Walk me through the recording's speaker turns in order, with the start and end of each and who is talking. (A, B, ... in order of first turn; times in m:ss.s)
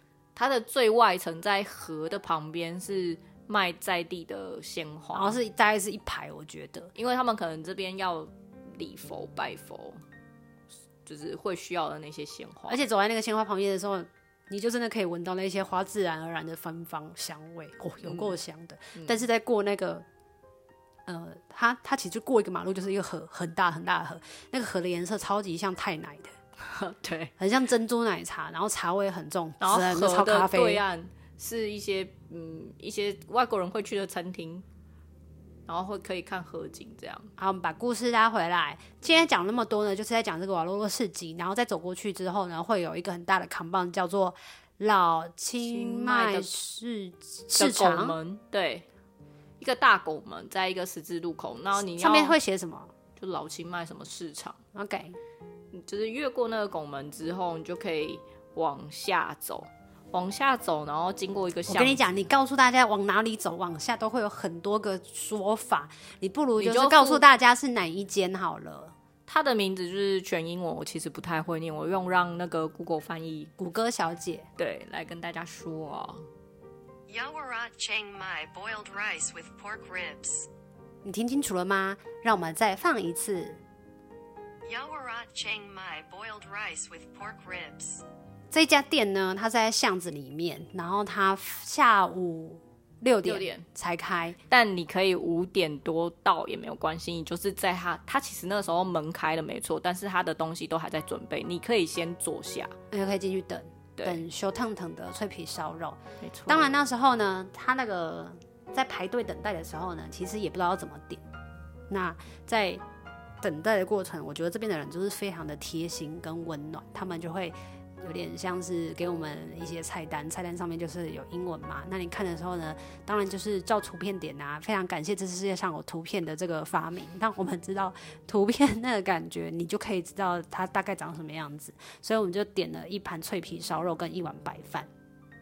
0:00.4-0:05.4 A
0:05.1-0:06.9 B
0:06.9-0:10.0 A
0:11.0-0:12.8 A
0:12.7-0:20.0 B
0:18.0-0:18.3 A
0:19.0-0:19.2 A
0:21.0-0:26.3 B
0:26.6-0:27.3 A
0:27.4-0:30.8 B
0:29.6-0:34.6 A
0:35.7-0:37.3 A
0:37.4-0:48.2 B
0:45.6-0:46.6 A
0:47.6-0:48.8 A
0:49.6-0:52.4 A
0:51.8-0:52.9 B
0:53.2-0:54.6 A
0:54.7-0:55.2 B
0:55.7-1:02.1 A
1:01.7-1:08.9 B
1:06.6-1:07.2 A
1:09.3-1:13.5 A
1:13.6-1:14.5 B
1:14.6-1:16.2 A
1:17.1-1:20.5 C
1:21.0-1:23.6 B
1:24.6-1:28.0 C
1:28.5-1:34.4 B
1:33.2-1:33.6 A
1:34.5-1:42.7 A
1:42.9-1:51.2 B
1:46.2-1:46.7 A
1:51.9-1:52.8 B
1:53.4-2:14.9 B